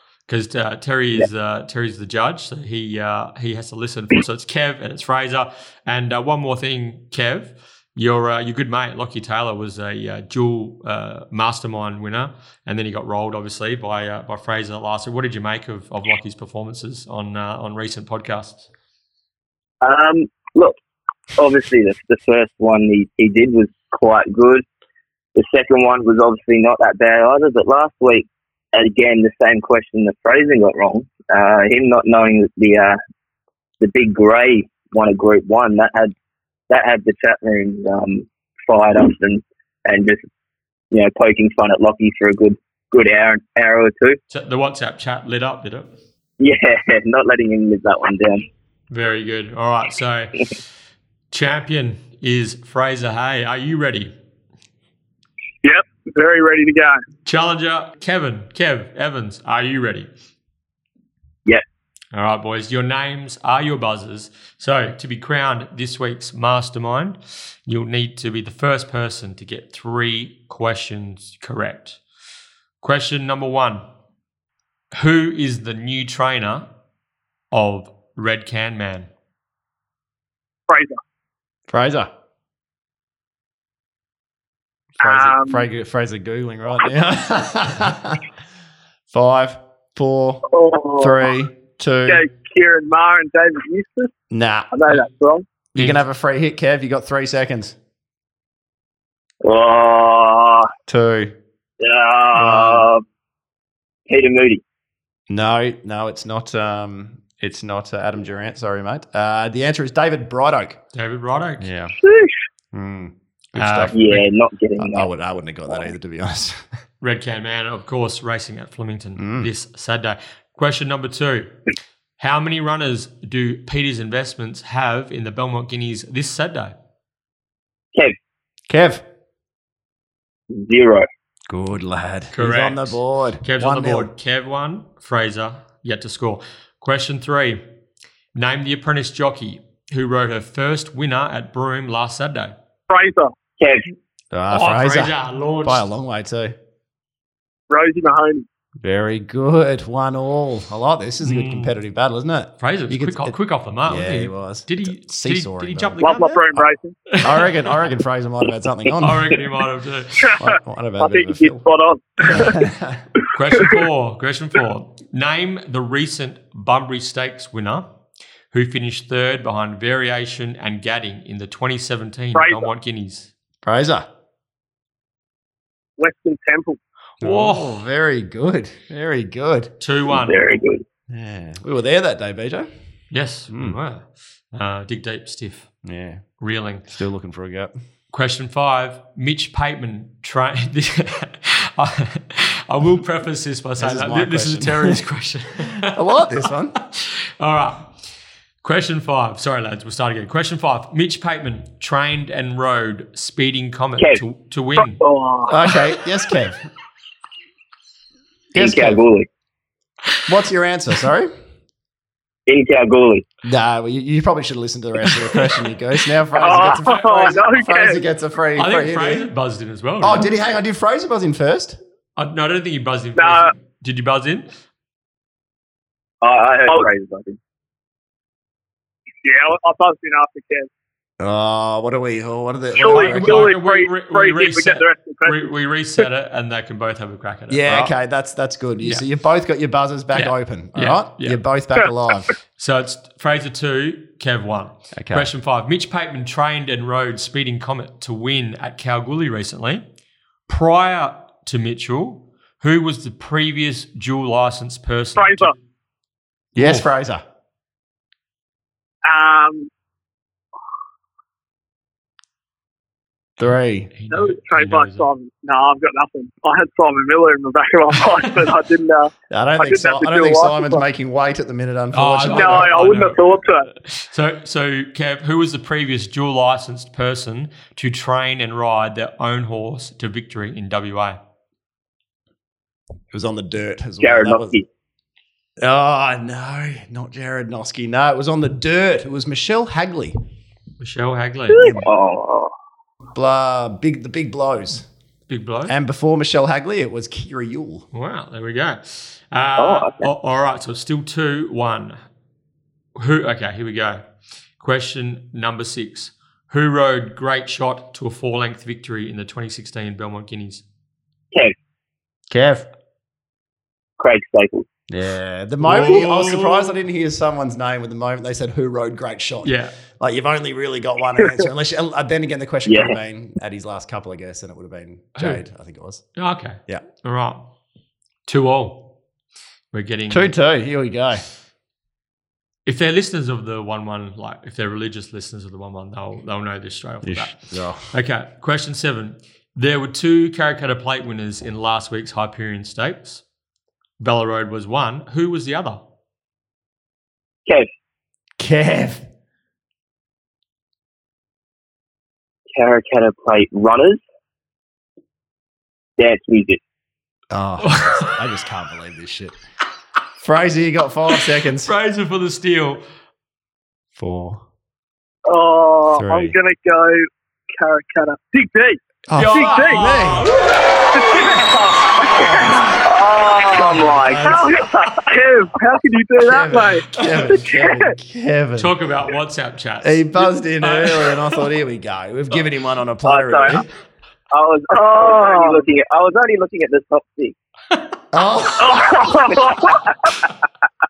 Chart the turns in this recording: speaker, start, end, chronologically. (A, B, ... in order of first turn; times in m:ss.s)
0:00.3-0:18.7 A
0:19.8-0:20.8 B
0:21.4-0:24.6 B
0:25.3-0:33.0 B
0:33.8-0:36.1 B
0:36.7-0:40.2 B
0:40.9-0:44.2 B
0:44.3-0:45.9 A
0:46.4-0:48.5 B
0:48.9-0:50.5 A
0:51.3-0:54.1 A
0:55.6-0:57.0 C
0:57.2-1:00.1 A
1:02.1-1:12.0 A
1:12.8-1:13.8 A
1:14.9-1:16.7 A
1:17.5-1:19.1 A
1:20.7-1:21.0 C
1:21.7-1:22.1 D
1:25.0-1:28.2 D
1:25.0-1:25.6 C
1:29.1-1:30.4 D
1:30.5-1:31.3 C
1:31.0-1:32.2 D
1:32.0-1:34.1 C
1:34.3-1:34.7 D
1:34.7-1:35.4 C
1:35.7-1:37.8 D
1:35.8-1:36.0 A
1:39.4-1:40.7 B
1:40.9-1:41.3 D
1:41.8-1:43.0 B
1:42.3-1:42.9 D
1:44.1-1:44.6 B
1:45.3-1:50.8 D
1:50.9-1:51.7 A
1:51.6-1:51.9 D
1:52.0-1:52.3 C
1:52.7-1:54.0 D
1:53.6-1:54.2 A
1:53.9-1:55.1 B
1:54.8-1:56.7 D
1:57.0-2:01.6 A
1:59.2-1:59.5 D
2:02.2-2:06.7 A
2:08.7-2:09.0 D
2:10.5-2:11.1 B
2:11.5-2:14.1 D
2:12.3-2:17.6 A
2:18.3-2:22.5 A
2:22.9-2:23.3 C
2:23.6-2:23.9 B
2:24.3-2:26.5 D
2:24.5-2:25.8 A
2:27.7-2:28.4 C
2:28.8-2:33.3 D
2:31.2-2:31.7 A
2:32.6-2:36.3 A
2:33.9-2:36.6 D
2:36.0-2:37.0 C
2:37.1-2:37.5 A
2:37.2-2:39.4 D
2:39.0-2:40.4 A
2:40.3-2:42.7 C
2:40.3-2:41.6 D
2:42.2-2:43.0 D
2:43.3-2:47.9 A
2:48.5-2:53.3 A
2:52.3-2:52.7 C
2:53.6-2:54.1 D
2:56.0-2:56.8 C
2:57.2-2:57.8 A
2:57.2-2:59.7 D
2:59.8-3:00.4 A
3:00.1-3:00.8 B
3:01.1-3:02.7 D
3:03.1-3:05.7 A
3:03.5-3:03.8 D
3:05.8-3:06.2 D
3:06.4-3:06.9 A
3:06.9-3:07.7 D
3:08.1-3:18.0 A
3:13.8-3:15.0 D
3:15.8-3:16.8 D
3:18.6-3:25.0 A
3:25.0-3:25.9 C
3:25.5-3:26.6 D
3:28.5-3:29.0 D
3:28.6-3:29.3 B
3:30.2-3:31.3 D
3:32.5-3:33.2 B
3:33.4-3:39.3 D
3:36.4-3:38.0 C
3:38.6-3:40.3 A
3:40.0-3:41.8 D
3:42.2-3:44.5 A
3:43.2-3:43.5 C
3:46.2-3:47.4 B
3:49.2-3:50.7 C
3:51.2-3:53.5 D
3:52.8-3:55.5 C
3:52.8-3:57.9 A
3:57.5-4:02.3 D
4:00.1-4:01.4 A
4:02.6-4:09.8 A
4:04.9-4:05.3 D
4:10.5-4:15.5 A
4:15.2-4:15.5 C
4:16.5-4:17.2 D
4:16.6-4:16.9 A
4:19.0-4:19.7 C
4:23.4-4:23.9 D
4:23.9-4:25.1 A
4:24.1-4:30.8 C
4:29.3-4:32.8 D
4:31.9-4:41.2 A
4:32.2-4:33.7 C
4:43.1-4:44.6 D
4:44.0-4:44.6 B
4:45.6-4:50.2 D
4:50.8-4:51.7 A
4:51.6-4:51.9 D
4:51.6-4:52.5 B
4:53.1-4:54.9 D
4:55.3-4:55.7 A
4:55.7-4:57.9 D
4:57.9-5:02.0 A
4:59.6-5:00.1 B
5:02.9-5:04.0 A
5:04.6-5:10.6 A
5:12.3-5:12.6 D
5:14.0-5:14.6 B
5:14.9-5:26.1 D
5:15.6-5:16.8 A
5:19.4-5:19.8 A
5:22.7-5:23.0 B
5:25.2-5:25.4 A
5:26.2-5:27.5 A
5:28.2-5:28.9 A
5:29.7-5:30.3 A
5:30.1-5:31.2 D
5:32.6-5:43.2 A
5:37.0-5:37.9 D
5:44.0-5:45.8 A
5:48.4-5:49.1 D
5:52.5-5:54.0 B
5:56.0-5:56.6 B
5:57.3-5:59.3 D
5:57.6-5:58.2 A
6:00.2-6:01.7 D
6:01.1-6:02.8 A
6:04.0-6:04.4 D
6:05.3-6:10.1 C
6:05.9-6:06.3 D
6:09.1-6:10.3 D
6:09.1-6:11.4 A
6:10.9-6:12.3 C
6:12.0-6:15.1 B
6:12.2-6:12.8 D
6:13.5-6:17.9 C
6:14.0-6:14.5 D
6:16.2-6:18.7 D
6:18.6-6:21.5 A
6:19.8-6:23.7 D
6:23.0-6:23.6 B
6:24.3-6:27.4 B
6:24.7-6:25.6 C
6:28.1-6:29.2 D
6:28.7-6:29.8 C
6:29.3-6:29.7 B